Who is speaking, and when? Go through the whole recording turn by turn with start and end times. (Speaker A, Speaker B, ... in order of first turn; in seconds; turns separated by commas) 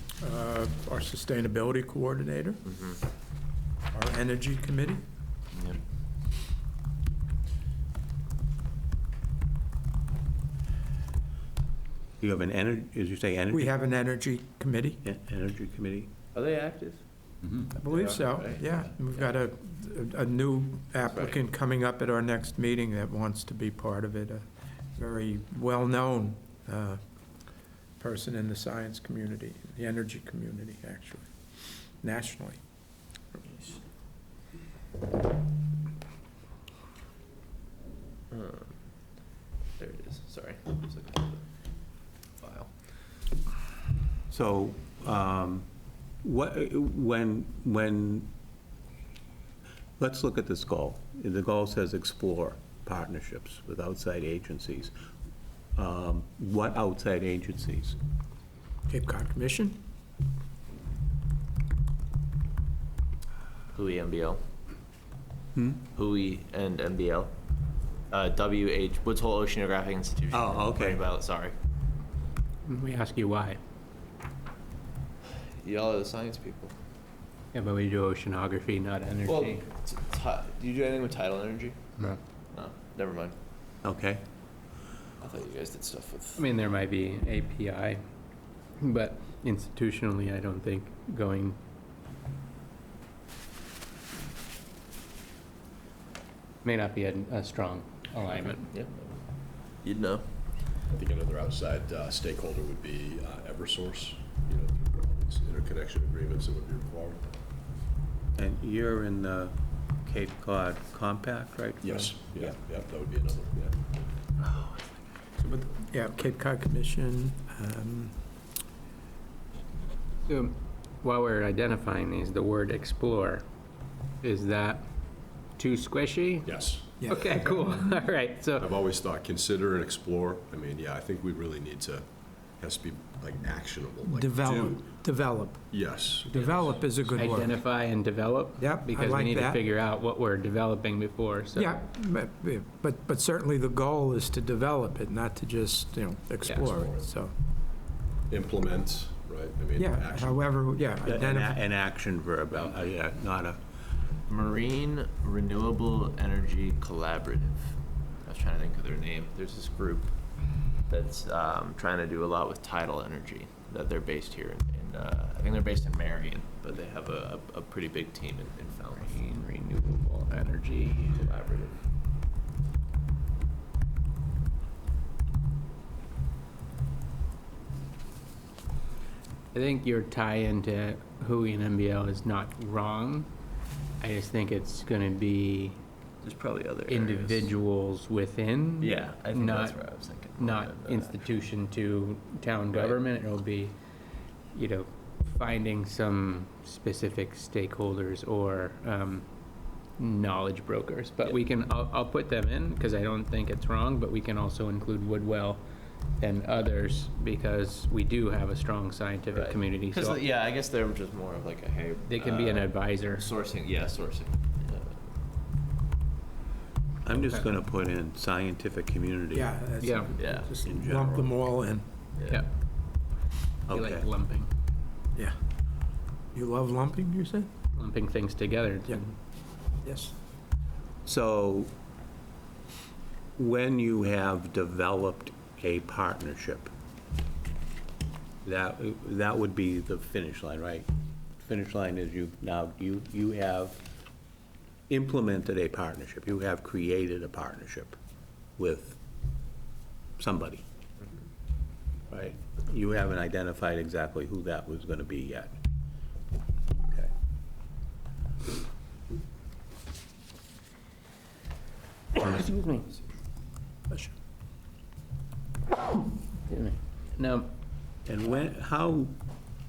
Speaker A: 0.2-2.6, Speaker B: 2.6-3.0, Speaker A: 3.9-5.0, Speaker B: 5.5-5.8, Speaker C: 12.2-13.7, Speaker A: 13.5-15.0, Speaker C: 15.0-16.1, Speaker B: 16.3-17.0, Speaker B: 17.7-19.3, Speaker A: 17.8-24.4, Speaker B: 21.0-21.4, Speaker A: 24.9-27.0, Speaker A: 28.0-31.3, Speaker A: 32.0-32.6, Speaker B: 33.4-33.8, Speaker B: 38.3-38.8, Speaker B: 39.8-41.4, Speaker B: 42.4-42.7, Speaker C: 44.3-45.7, Speaker C: 46.2-48.3, Speaker C: 50.0-54.9, Speaker C: 55.8-58.0, Speaker A: 58.9-59.8, Speaker B: 63.7-64.4, Speaker C: 65.5-65.8, Speaker B: 65.9-67.3, Speaker B: 68.1-71.5, Speaker C: 70.3-71.0, Speaker D: 72.6-73.6, Speaker B: 75.3-76.7, Speaker D: 77.5-79.6, Speaker B: 79.2-82.0, Speaker B: 82.5-83.3, Speaker C: 83.8-84.2, Speaker B: 85.2-86.4, Speaker D: 86.3-88.0, Speaker D: 88.8-91.6, Speaker D: 96.6-98.7, Speaker B: 98.3-99.3, Speaker B: 99.8-100.2, Speaker E: 100.9-107.2, Speaker C: 108.3-112.5, Speaker E: 111.8-114.0, Speaker A: 115.4-118.2, Speaker D: 120.2-123.4, Speaker D: 124.2-124.9, Speaker D: 125.5-128.7, Speaker E: 126.4-126.9, Speaker A: 127.0-127.8, Speaker E: 128.6-134.8, Speaker A: 134.0-135.7, Speaker E: 135.7-137.2, Speaker D: 136.4-141.8, Speaker A: 136.5-137.6, Speaker A: 138.6-139.6, Speaker A: 141.6-147.3, Speaker E: 146.7-147.1, Speaker E: 148.3-150.6, Speaker A: 149.8-151.6, Speaker C: 151.0-153.6, Speaker B: 154.3-160.2, Speaker B: 160.8-169.3, Speaker D: 169.0-171.3, Speaker B: 171.1-171.8, Speaker D: 179.5-183.3, Speaker D: 184.0-185.8, Speaker B: 186.2-187.5, Speaker D: 186.9-193.8, Speaker B: 188.8-191.3, Speaker D: 194.5-199.3, Speaker D: 200.0-205.6, Speaker D: 206.2-210.2, Speaker B: 209.3-215.0, Speaker D: 212.1-213.3, Speaker C: 217.0-219.5, Speaker D: 217.1-217.5, Speaker A: 219.3-221.8, Speaker D: 219.8-220.1, Speaker B: 220.2-220.5, Speaker C: 220.6-221.4, Speaker B: 222.2-222.4, Speaker C: 223.7-224.1, Speaker D: 223.7-224.5, Speaker A: 226.3-227.5, Speaker D: 227.7-229.0, Speaker A: 228.9-229.1, Speaker A: 229.8-230.2, Speaker C: 231.0-231.7, Speaker C: 233.4-236.7, Speaker C: 238.4-243.8, Speaker C: 244.9-247.9, Speaker C: 248.6-249.0, Speaker C: 250.2-250.6, Speaker C: 252.1-255.6, Speaker D: 262.1-263.0, Speaker D: 266.4-267.5, Speaker C: 268.1-269.1